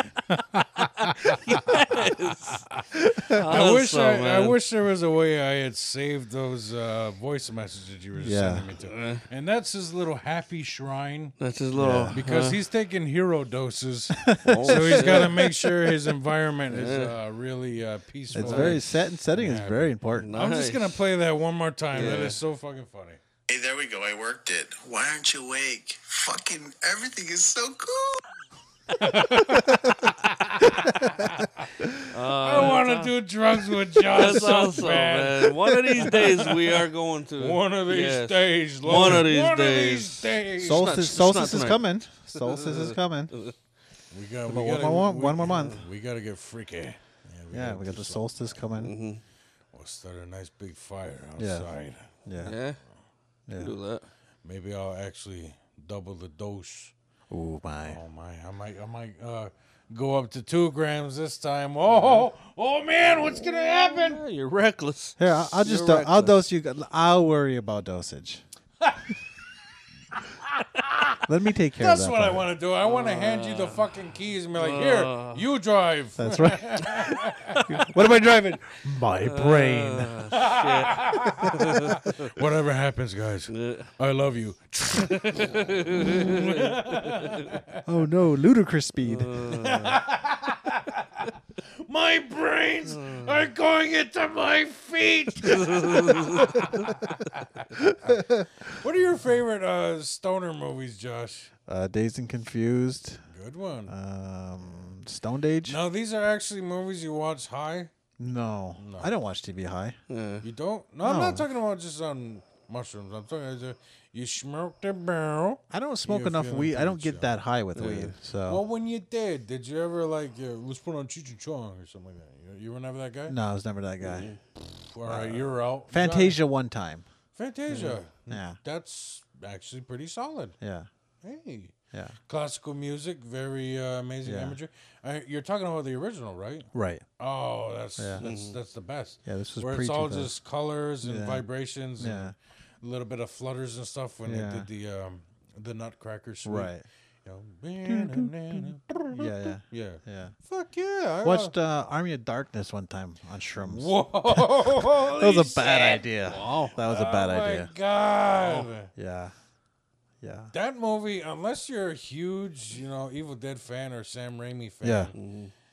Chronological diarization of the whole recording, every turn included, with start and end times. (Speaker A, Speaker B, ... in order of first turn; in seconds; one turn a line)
Speaker A: 0.6-11.4
Speaker B: 1.0-2.7
Speaker B: 3.3-4.6
Speaker C: 8.2-8.7
Speaker B: 8.8-9.2
Speaker B: 11.4-12.6
Speaker C: 11.8-12.2
Speaker A: 12.1-23.2
Speaker C: 14.2-15.5
Speaker B: 14.4-15.4
Speaker B: 16.7-17.1
Speaker C: 18.3-20.3
Speaker B: 18.4-18.8
Speaker B: 20.2-20.9
Speaker B: 21.9-22.4
Speaker D: 23.5-28.2
Speaker A: 28.9-36.8
Speaker C: 30.8-31.3
Speaker B: 32.1-33.1
Speaker B: 34.1-43.5
Speaker A: 37.4-40.9
Speaker C: 38.9-39.3
Speaker C: 40.6-43.3
Speaker A: 44.1-48.5
Speaker C: 44.5-45.8
Speaker C: 47.5-48.9
Speaker B: 48.8-49.2
Speaker A: 49.7-52.1
Speaker C: 51.4-51.7
Speaker C: 52.3-52.6
Speaker B: 52.4-52.8
Speaker C: 53.5-53.7
Speaker B: 53.5-54.1
Speaker A: 54.4-56.9
Speaker C: 57.3-58.0
Speaker A: 57.9-64.2
Speaker B: 61.9-62.3
Speaker B: 63.2-66.4
Speaker C: 65.2-68.4
Speaker A: 68.8-69.1
Speaker A: 70.2-77.8
Speaker C: 71.3-72.5
Speaker B: 72.8-73.9
Speaker B: 74.6-75.4
Speaker C: 76.2-80.1
Speaker B: 79.2-82.3
Speaker A: 80.3-87.8
Speaker B: 83.5-83.9
Speaker B: 85.0-87.5
Speaker C: 87.8-89.4
Speaker B: 89.0-90.0
Speaker A: 89.5-101.5
Speaker B: 92.9-93.4
Speaker B: 95.4-97.0
Speaker C: 97.8-98.7
Speaker C: 101.7-103.2
Speaker A: 103.3-103.9
Speaker C: 103.9-105.8
Speaker A: 105.7-107.9
Speaker C: 108.2-110.0
Speaker A: 108.8-109.1
Speaker B: 110.1-110.4
Speaker A: 110.4-117.3
Speaker C: 111.0-111.5
Speaker C: 115.7-118.6
Speaker B: 117.8-118.1
Speaker A: 118.5-123.4
Speaker C: 123.3-124.3
Speaker B: 124.0-124.4
Speaker A: 124.9-126.4
Speaker C: 125.1-127.1
Speaker A: 127.4-130.6
Speaker B: 127.7-128.0
Speaker C: 128.3-128.6
Speaker C: 130.6-130.9
Speaker A: 131.2-131.8
Speaker A: 132.3-146.7
Speaker C: 134.2-134.6
Speaker C: 136.7-137.1
Speaker C: 138.0-138.2
Speaker B: 138.2-138.6
Speaker C: 139.3-140.3
Speaker C: 141.0-141.4
Speaker C: 142.0-142.3
Speaker C: 144.3-144.7
Speaker C: 146.4-146.8
Speaker A: 147.2-151.5
Speaker C: 147.9-150.3
Speaker C: 151.2-157.7
Speaker A: 153.6-156.0
Speaker B: 155.6-156.8
Speaker A: 156.8-158.9
Speaker C: 158.9-159.3
Speaker C: 160.2-160.5
Speaker A: 160.5-165.2
Speaker C: 164.8-165.1
Speaker B: 165.1-165.5